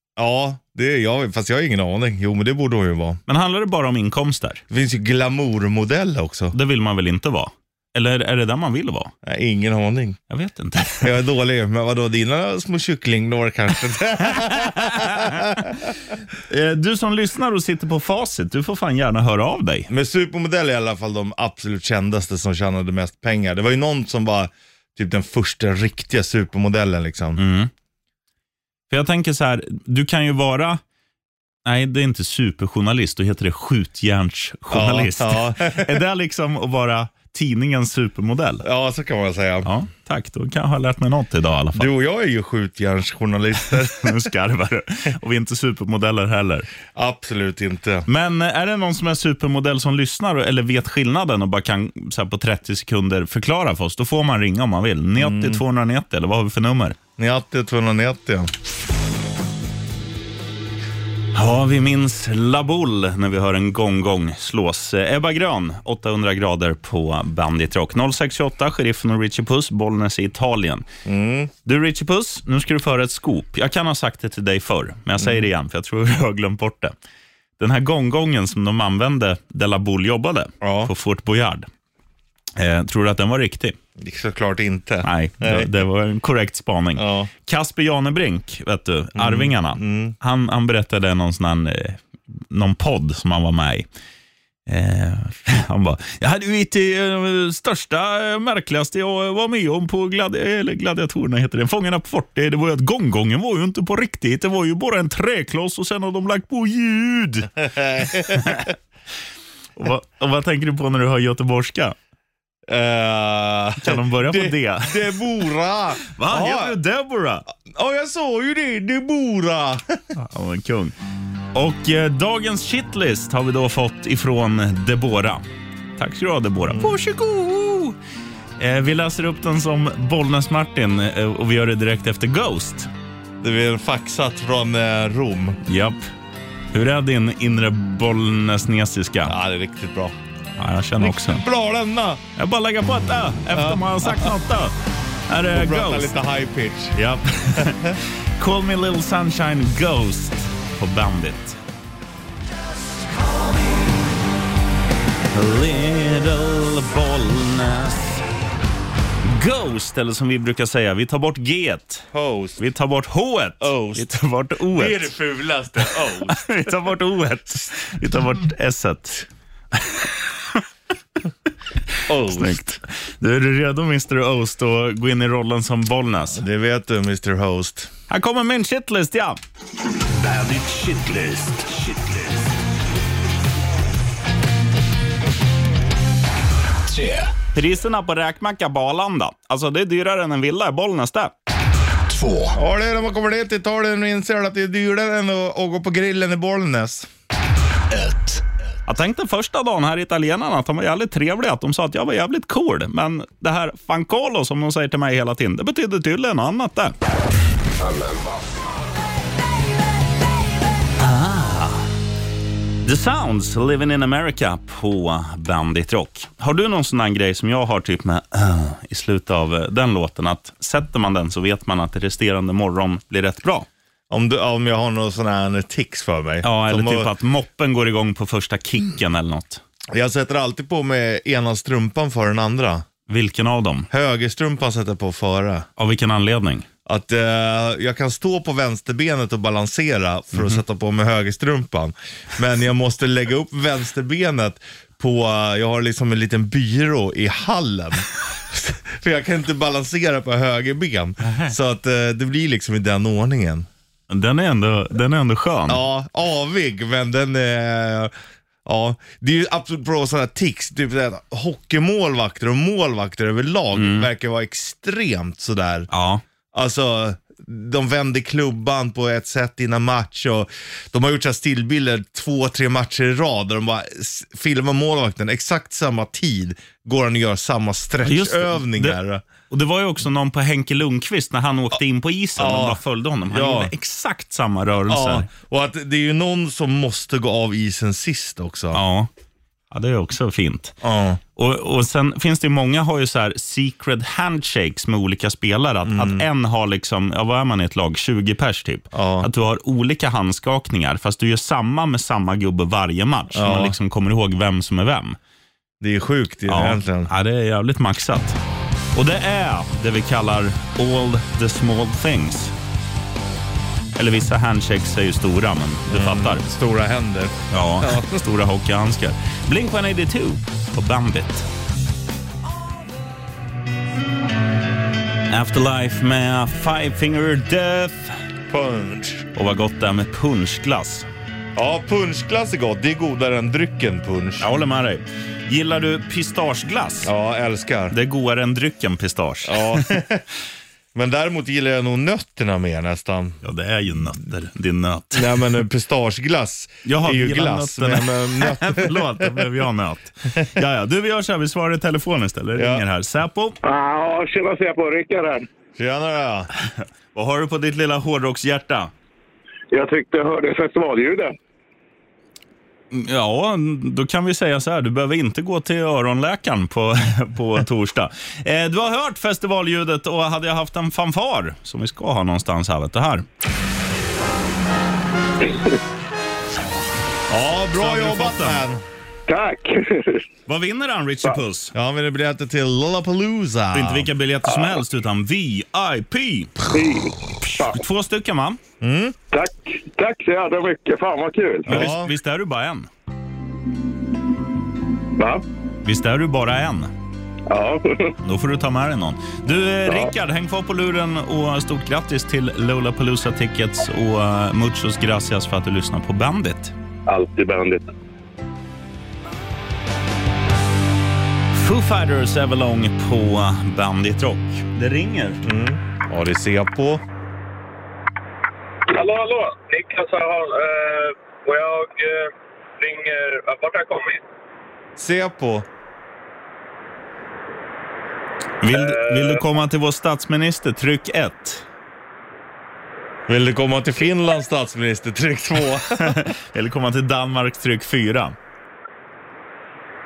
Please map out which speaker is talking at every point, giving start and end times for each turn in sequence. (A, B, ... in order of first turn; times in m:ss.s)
0:00.2-0:03.2 A
0:03.3-0:04.6 B
0:04.7-0:06.6 A
0:06.5-0:09.1 B
0:09.2-0:10.2 A
0:10.3-0:11.1 B
0:11.0-0:15.9 A
0:14.3-0:15.7 B
0:16.5-0:19.9 B
0:19.9-0:27.4 A
0:27.4-0:27.7 B
0:28.9-0:30.8 B
0:31.6-0:38.6 B
0:34.7-0:36.0 A
0:38.6-0:39.7 A
0:39.6-0:41.9 B
0:41.7-0:44.2 A
0:43.8-0:46.7 B
0:46.9-0:48.0 A
0:48.1-0:57.0 B
0:55.2-0:55.6 A
0:57.2-0:58.5 A
1:01.3-1:10.8 B
1:11.0-1:11.5 A
1:11.6-1:16.9 B
1:15.2-1:15.5 A
1:17.6-1:21.7 B
1:20.6-1:20.9 A
1:22.6-1:23.8 B
1:24.0-1:25.7 A
1:25.0-1:33.8 B
1:27.0-1:27.3 A
1:29.2-1:30.2 A
1:34.7-1:48.7 B
1:47.6-1:48.7 A
1:49.8-1:51.9 B
1:52.7-1:56.8 A
1:53.8-1:55.1 B
1:56.1-1:57.4 B
1:57.6-2:00.0 A
2:00.1-2:00.9 B
2:01.5-2:05.4 B
2:06.0-2:08.0 B
2:06.6-2:06.9 A
2:08.6-2:12.9 B
2:13.4-2:15.6 A
2:15.6-2:16.0 B
2:16.7-2:19.3 B
2:19.2-2:20.2 A
2:20.6-2:21.4 B
2:21.0-2:22.2 A
2:22.4-2:24.7 B
2:23.5-2:24.3 A
2:25.3-2:26.1 B
2:25.5-2:27.0 A
2:26.9-2:31.6 B
2:27.5-2:28.0 A
2:35.3-2:38.2 B
2:39.2-2:42.0 B
2:42.1-2:42.6 A
2:42.6-2:45.1 B
2:43.6-2:44.1 A
2:44.7-2:46.4 A
2:45.8-2:50.6 B
2:52.0-2:56.4 B
2:52.1-2:52.8 A
2:56.3-2:57.9 A
2:58.1-2:59.4 B
3:00.1-3:02.4 C
3:06.8-3:07.3 C
3:07.5-3:11.3 B
3:12.1-3:12.6 C
3:12.5-3:17.1 A
3:17.9-3:18.4 C
3:18.8-3:26.9 B
3:27.8-3:28.4 C
3:31.0-3:31.9 B
3:32.8-3:43.7 B
3:44.1-3:47.1 A
3:46.4-3:49.6 B
3:49.9-3:52.8 A
3:53.1-3:53.9 B
3:53.9-3:55.7 A
3:55.8-3:56.6 B
3:56.8-4:13.7 A
4:11.2-4:11.5 B
4:14.1-4:15.8 B
4:15.7-4:18.1 A
4:18.6-4:25.9 A
4:23.7-4:24.1 B
4:25.9-4:26.2 B
4:26.5-4:39.2 A
4:38.0-4:45.3 B
4:42.4-4:43.7 A
4:44.9-4:48.8 A
4:48.7-4:49.1 B
4:49.7-4:50.8 B
4:50.8-4:51.2 A
4:51.4-5:05.2 B
4:55.8-4:56.2 A
4:58.9-4:59.3 A
5:03.3-5:03.7 A
5:05.8-5:07.1 A
5:06.5-5:08.4 B
5:08.9-5:12.5 B
5:13.9-5:16.4 B
5:15.9-5:18.2 A
5:17.5-5:21.5 B
5:25.3-5:28.2 B
5:28.5-5:29.2 A
5:29.3-5:31.0 B
5:31.6-5:34.5 A
5:34.4-5:37.1 B
5:37.0-5:38.0 A
5:37.9-5:40.0 B
5:39.4-5:40.2 A
5:40.9-5:43.4 A
5:43.4-5:45.6 B
5:45.1-5:49.5 A
5:46.8-5:53.6 B
5:52.5-5:52.8 A
5:53.6-5:55.4 D
5:55.8-5:56.5 A
5:56.8-5:58.9 B
5:59.7-6:01.3 D
6:02.9-6:13.2 B
6:17.3-6:18.8 A
6:17.7-6:18.6 B
6:19.3-6:20.2 D
6:20.5-6:21.7 B
6:21.7-6:24.1 A
6:23.7-6:26.6 B
6:26.7-6:27.8 D
6:27.4-6:28.6 B
6:28.8-6:29.2 A
6:29.3-6:31.8 D
6:31.6-6:32.1 A
6:31.6-6:32.9 B
6:35.2-6:35.4 D
6:35.8-6:36.9 B
6:37.5-6:38.1 D
6:38.2-6:46.7 B
6:47.0-6:47.8 D
6:51.5-6:55.4 B
6:55.4-6:57.0 A
6:58.9-7:04.2 D
7:05.0-7:05.6 A
7:08.6-7:11.6 B
7:08.7-7:09.4 D
7:13.3-7:16.2 A
7:15.9-7:18.4 B